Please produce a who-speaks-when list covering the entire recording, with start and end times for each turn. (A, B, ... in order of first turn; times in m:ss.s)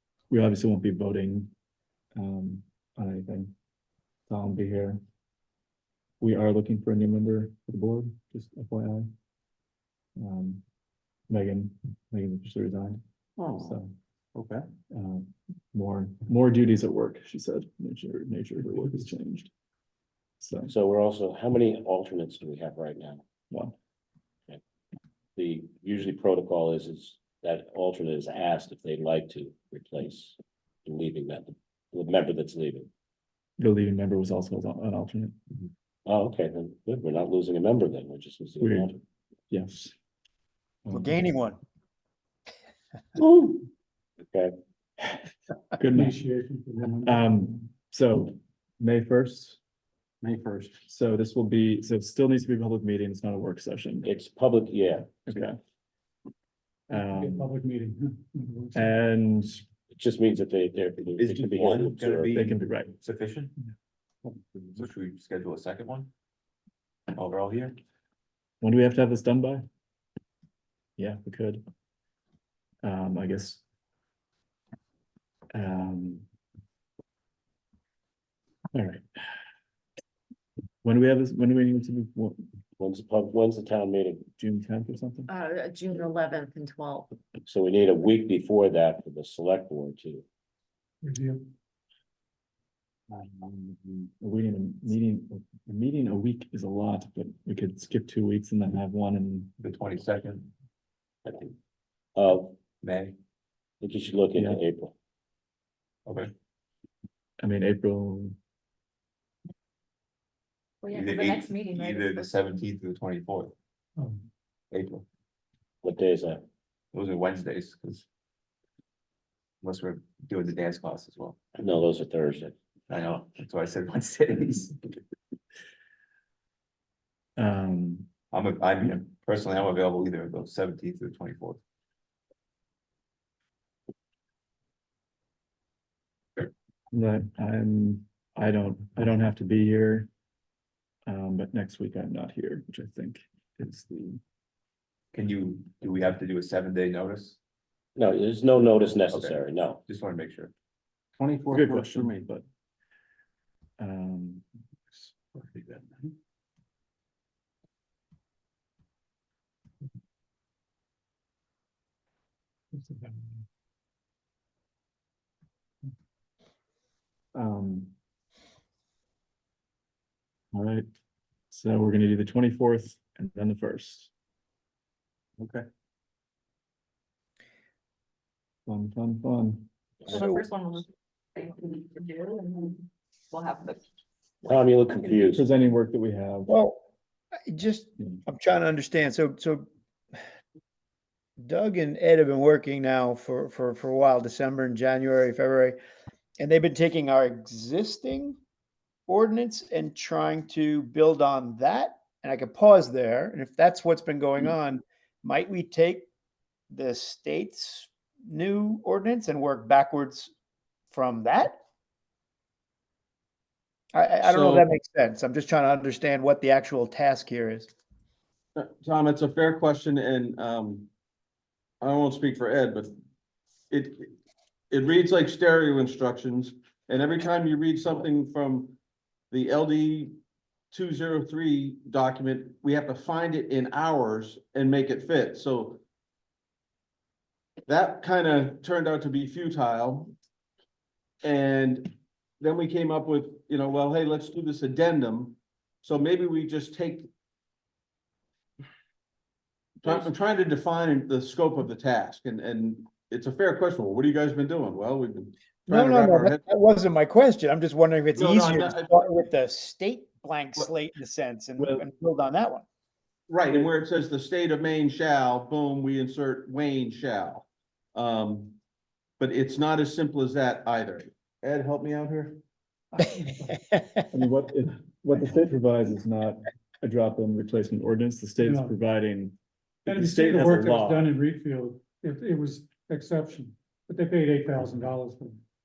0:00.3-0:01.5 A
0:02.2-0:03.5 A
0:04.3-0:05.0 A
0:06.2-0:09.1 A
0:10.2-0:10.6 A
0:11.3-0:13.0 A
0:13.4-0:13.8 B
0:13.6-0:13.9 A
0:14.3-0:14.6 B
0:14.9-0:19.5 A
0:20.4-0:20.7 A
0:20.7-0:23.2 C
0:23.5-0:23.8 A
0:25.4-0:32.9 C
0:33.6-0:35.4 A
0:36.0-0:39.0 C
0:38.6-0:38.9 A
0:39.5-0:40.0 A
0:40.8-0:41.2 A
0:40.9-0:41.6 D
0:43.2-0:43.7 C
0:45.8-0:46.2 A
0:45.9-0:47.4 E
0:47.0-0:49.6 A
0:50.2-0:50.7 B
0:50.9-0:54.1 A
0:54.0-0:55.2 C
0:55.3-0:55.6 A
0:56.9-0:57.5 A
0:56.9-0:59.0 E
0:58.7-0:59.6 A
0:59.9-1:02.3 C
1:01.1-1:03.5 F
1:02.3-1:02.9 A
1:04.7-1:06.1 F
1:07.1-1:07.8 F
1:08.6-1:09.6 A
1:11.0-1:11.6 A
1:12.8-1:13.6 A
1:15.5-1:16.2 A
1:18.7-1:19.0 A
1:20.8-1:22.5 A
1:22.8-1:24.2 C
1:24.4-1:25.3 A
1:25.3-1:27.1 G
1:27.4-1:30.2 C
1:31.0-1:31.5 E
1:33.1-1:39.5 A
1:39.6-1:40.5 F
1:41.2-1:41.6 C
1:42.2-1:42.6 C
1:42.8-1:43.2 F
1:43.8-1:44.9 C
1:44.3-1:44.6 A
1:46.0-1:46.3 F
1:47.4-1:48.4 A
1:50.8-1:52.3 G
1:50.9-1:53.5 F
1:54.0-1:54.2 E
1:54.7-1:55.0 F
1:55.8-1:56.4 C
1:56.9-1:58.0 F
1:59.6-2:01.4 F
2:01.6-2:02.6 C
2:02.9-2:04.8 F
2:07.4-2:08.1 A
2:08.3-2:11.6 F
2:16.9-2:20.1 A
2:21.1-2:24.2 A
2:25.1-2:27.4 F
2:28.0-2:29.8 C
2:28.7-2:30.5 F
2:31.2-2:32.2 B
2:31.5-2:32.4 A
2:33.8-2:34.4 A
2:42.7-2:43.4 E
2:47.3-2:47.9 A
2:50.5-2:50.9 A
2:51.5-2:54.1 A
2:55.4-2:55.6 B
2:58.7-2:59.7 A
3:00.1-3:03.8 G
3:04.4-3:05.4 C
3:05.3-3:06.5 A
3:06.5-3:06.8 D
3:07.5-3:09.7 D
3:11.4-3:15.8 D
3:16.4-3:18.4 D
3:19.1-3:26.1 D
3:26.7-3:30.3 D
3:30.9-3:31.6 D
3:33.9-3:37.7 D
3:34.2-3:34.7 B
3:38.6-3:40.9 B
3:41.8-3:42.9 B
3:43.7-3:44.1 B
3:44.7-3:48.8 B
3:49.3-3:50.1 B
3:50.7-3:55.8 B
3:57.7-4:00.1 B
4:01.2-4:07.1 B
4:09.8-4:16.4 B
4:15.7-4:22.6 D
4:18.1-4:19.0 B
4:21.6-4:21.8 A
4:23.3-4:28.6 B
4:29.2-4:32.4 B
4:32.9-4:33.6 E
4:34.1-4:41.1 A
4:38.4-4:38.8 E
4:39.9-4:45.4 E